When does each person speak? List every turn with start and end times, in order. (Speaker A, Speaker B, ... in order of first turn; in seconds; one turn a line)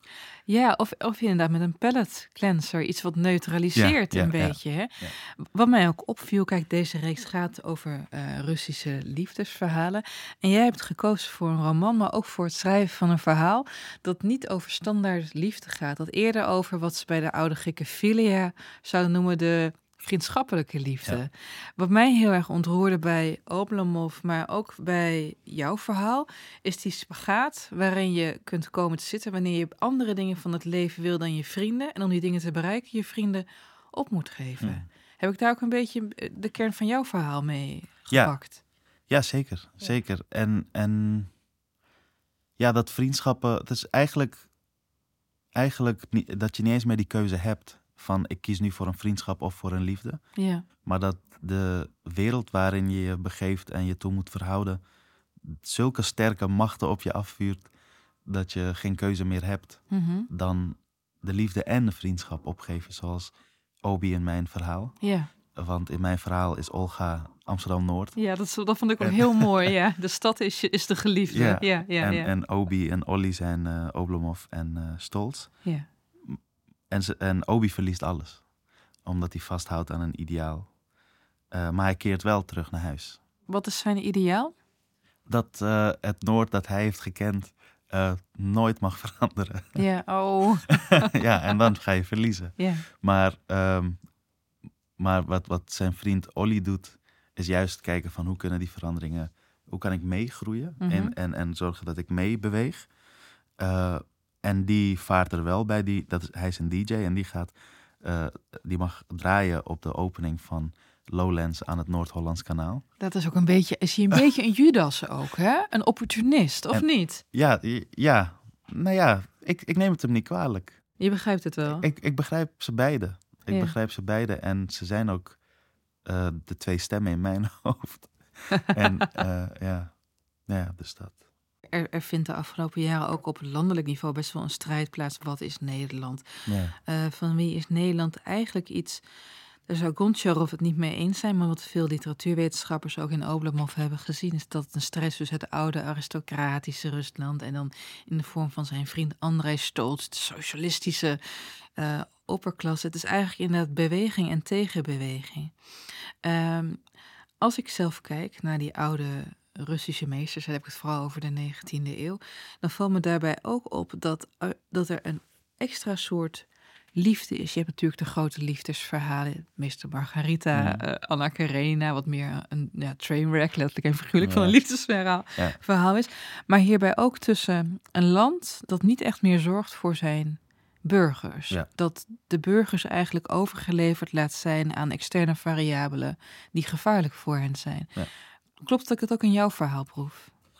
Speaker A: 0.5-38.6
Speaker B: 3.8-5.2
Speaker B: 34.6-34.9
Speaker B: 38.1-38.4
Speaker B: 39.1-41.3
Speaker B: 42.6-44.5
Speaker B: 45.5-50.2
Speaker A: 50.4-50.6
Speaker B: 50.8-54.8
Speaker B: 55.4-57.7
Speaker B: 58.3-65.0
Speaker A: 59.9-60.3
Speaker A: 65.0-65.3
Speaker B: 65.5-68.2
Speaker A: 68.2-72.3
Speaker B: 69.0-69.7
Speaker B: 71.3-75.6
Speaker B: 76.9-78.4
Speaker B: 79.0-80.7
Speaker B: 81.5-83.2
Speaker A: 83.5-84.5
Speaker B: 85.3-89.8
Speaker A: 89.8-91.1
Speaker B: 91.1-94.0
Speaker A: 92.6-92.8
Speaker B: 95.0-102.9
Speaker A: 100.8-101.2
Speaker B: 103.6-112.8
Speaker A: 113.0-117.2
Speaker B: 116.7-120.8
Speaker A: 121.0-121.9
Speaker B: 121.7-125.4
Speaker A: 123.5-123.8
Speaker B: 126.0-129.9
Speaker A: 128.5-128.8
Speaker B: 130.5-131.2
Speaker A: 131.7-136.2
Speaker B: 136.5-136.8
Speaker A: 136.8-139.0
Speaker A: 139.7-151.2
Speaker A: 151.8-155.6
Speaker A: 156.2-156.8
Speaker A: 157.4-187.9
Speaker B: 170.6-170.8
Speaker B: 174.2-174.6
Speaker A: 188.6-190.3